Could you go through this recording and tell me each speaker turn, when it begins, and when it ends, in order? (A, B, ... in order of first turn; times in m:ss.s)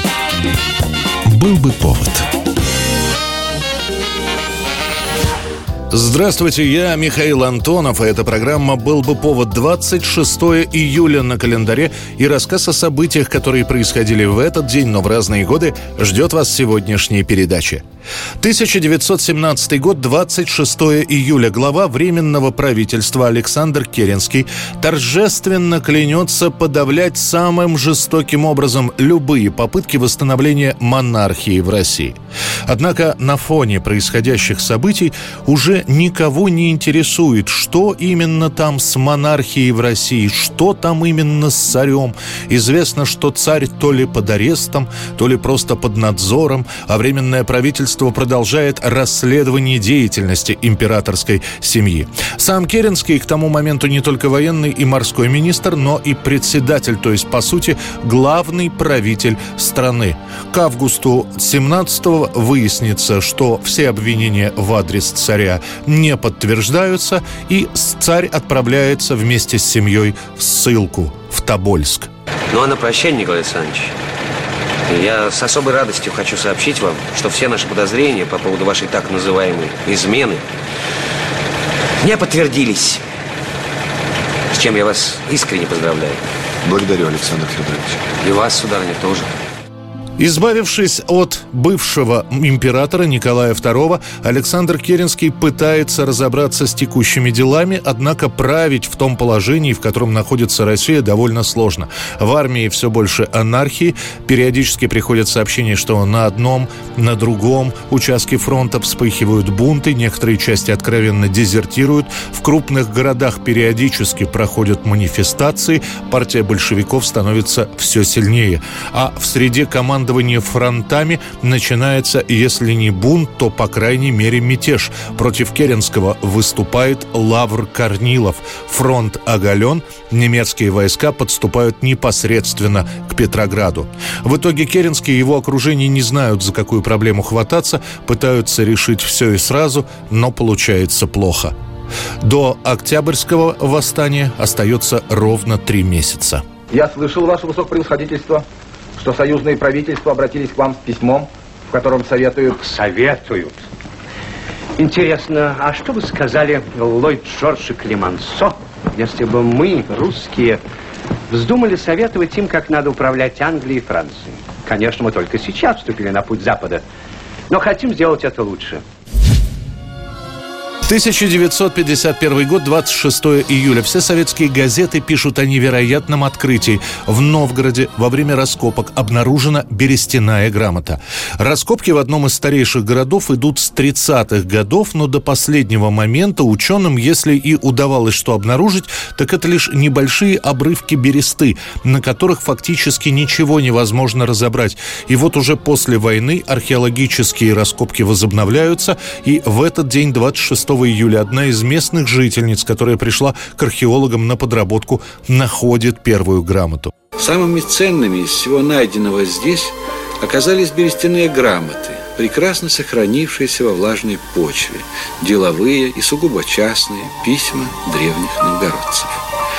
0:01.3-0:02.2 A
0:05.9-0:17.8 A
0:18.4-0:32.1 A
0:32.7-1:12.1 A
1:12.5-1:13.9 B
1:14.9-1:20.4 B
1:22.0-1:23.0 B
1:24.5-1:26.2 B
1:26.7-1:28.0 C
1:28.1-1:29.3 B
1:30.2-2:21.5 A
2:22.2-2:26.4 A
2:26.7-2:28.4 D
2:29.0-2:32.6 D
2:32.5-2:33.6 E
2:34.8-2:40.6 E
2:41.3-2:46.8 E
2:47.5-2:48.8 E
2:50.8-3:26.9 A
3:27.2-3:39.2 C